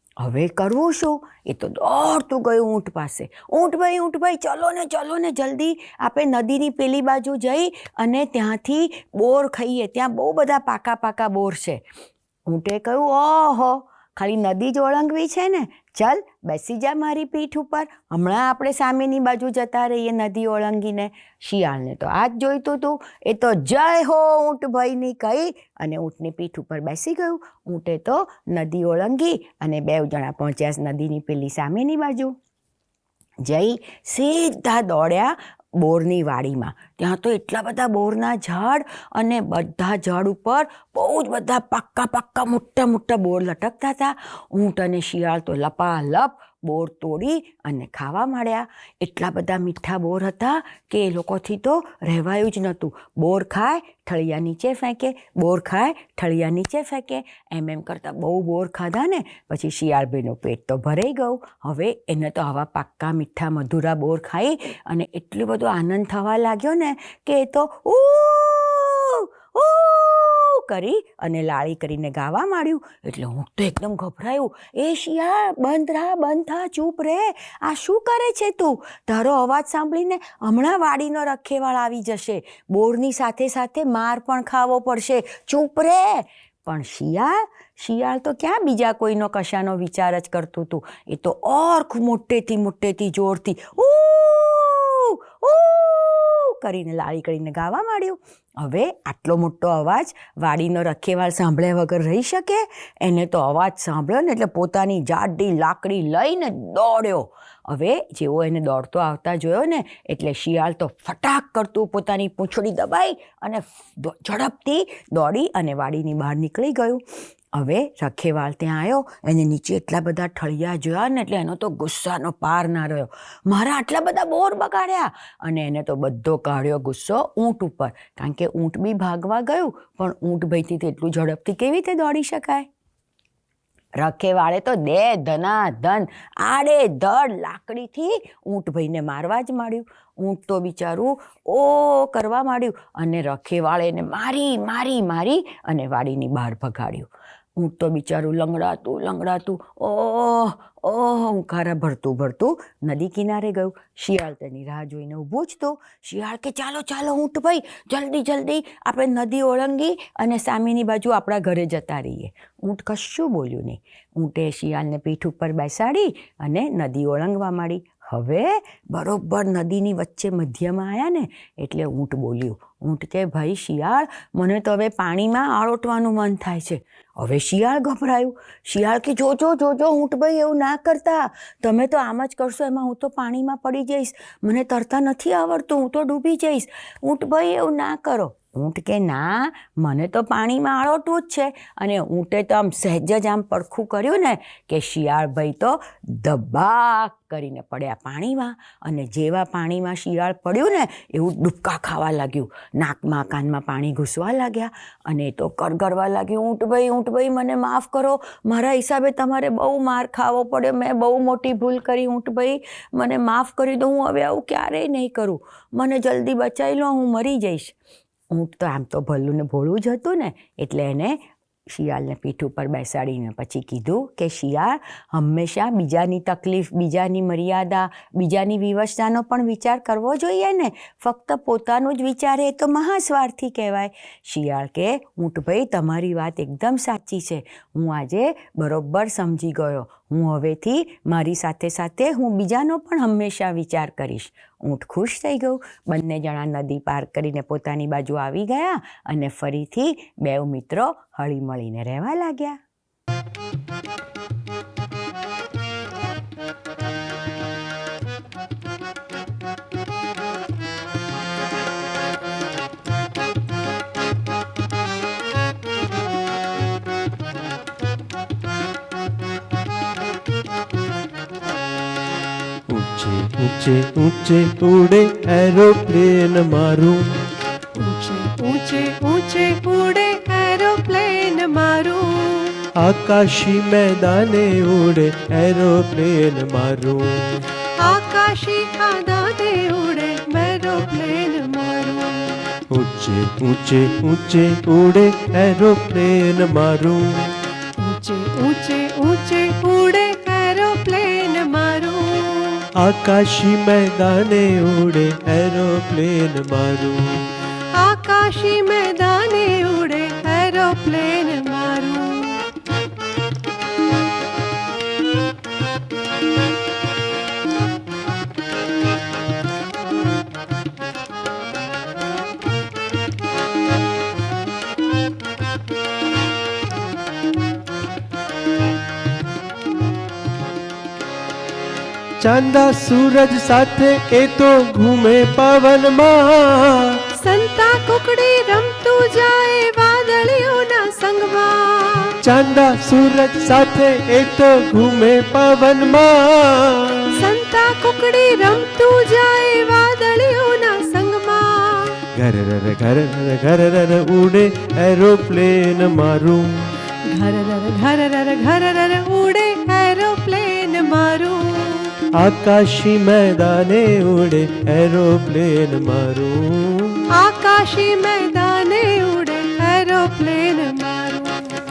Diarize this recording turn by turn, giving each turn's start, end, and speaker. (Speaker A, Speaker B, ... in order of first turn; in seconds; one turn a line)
Speaker A: 0.2-11.8
Speaker A: 12.5-32.3
Speaker A: 33.4-132.7
Speaker A: 134.0-217.7
Speaker A: 218.3-252.6
Speaker B: 272.7-277.1
Speaker C: 277.8-282.6
Speaker B: 282.8-287.3
Speaker C: 287.8-292.3
Speaker B: 292.7-297.3
Speaker C: 297.8-302.6
Speaker B: 302.8-307.3
Speaker C: 307.7-312.4
Speaker B: 332.2-337.0
Speaker C: 337.1-342.1
Speaker B: 342.2-347.1
Speaker C: 347.1-352.0
Speaker B: 352.1-356.6
Speaker C: 357.1-361.9
Speaker B: 362.2-367.0
Speaker C: 367.1-371.6